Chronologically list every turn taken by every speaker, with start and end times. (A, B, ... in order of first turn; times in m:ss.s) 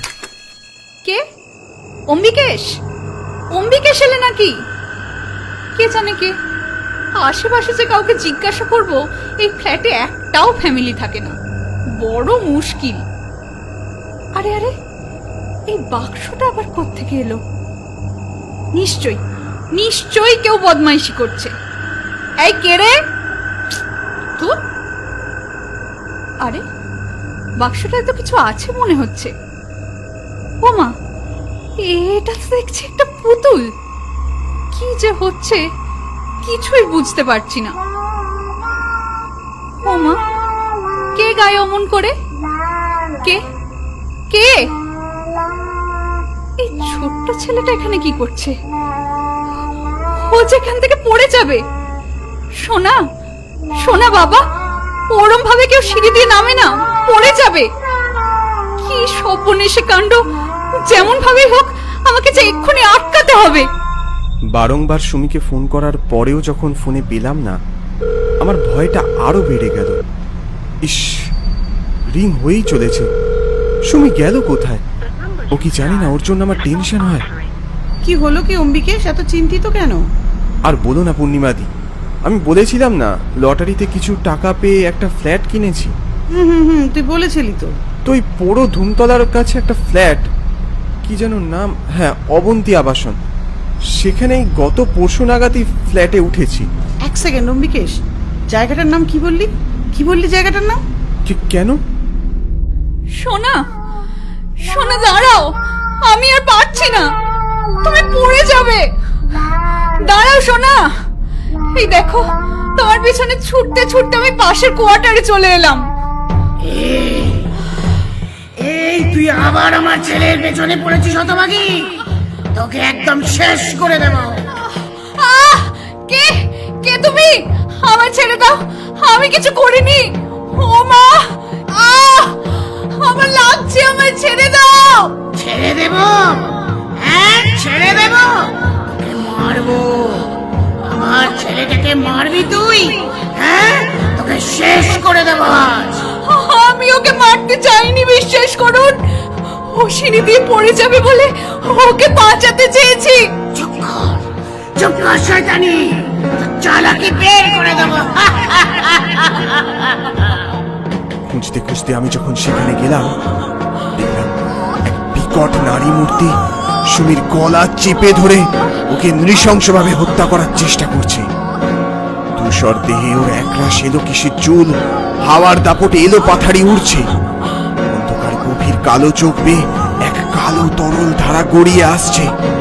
0:02.1-0:02.7 A
0:03.5-0:04.5 A
0:05.8-0:06.3 A
0:07.2-0:11.3 A
0:12.0-0:13.0 A
0:14.4-0:14.7 A
0:15.7-0:17.4 A
0:18.8-0:19.2 A
0:19.8-0:21.5 A
0:22.4-0:22.9 A
0:27.6-0:29.3 A
0:30.6-0:30.9 A
0:31.9-0:33.7 A
0:34.7-0:35.6 A
0:36.4-0:37.7 A
0:39.9-0:40.2 A
0:41.2-0:42.1 A
0:44.3-0:44.6 A
0:46.6-0:48.5 A
0:50.3-0:51.6 A
0:52.6-0:53.0 A
0:53.8-0:54.4 A
0:55.1-0:57.7 A
0:58.8-1:00.2 A
1:00.8-1:03.7 A
1:04.5-1:07.6 B
1:08.4-1:10.0 B
1:10.8-1:11.1 B
1:12.1-1:13.1 B
1:13.9-1:14.8 B
1:15.5-1:17.3 B
1:18.0-1:20.0 C
1:20.7-1:21.7 B
1:22.2-1:25.9 B
1:26.3-1:27.7 C
1:28.0-1:30.3 B
1:31.0-1:33.2 B
1:33.9-1:36.7 B
1:37.0-1:37.9 C
1:38.5-1:40.8 C
1:41.2-1:41.8 B
1:43.2-1:43.6 A
1:44.6-1:45.4 A
1:46.1-1:47.1 A
1:47.8-1:49.4 A
1:50.0-1:50.8 A
1:51.7-1:55.8 A
1:56.6-1:57.5 D
1:58.6-2:02.0 D
2:02.5-2:04.5 D
2:04.8-2:15.2 A
2:15.4-2:20.3 D
2:20.8-2:26.0 D
2:26.2-2:29.0 A
2:29.5-2:33.2 A
2:33.6-2:34.2 D
2:34.8-2:39.5 D
2:41.3-2:43.1 B
2:44.0-2:44.3 B
2:44.8-2:46.3 B
2:46.9-2:51.3 B
2:52.4-2:57.1 B
2:57.9-3:02.3 B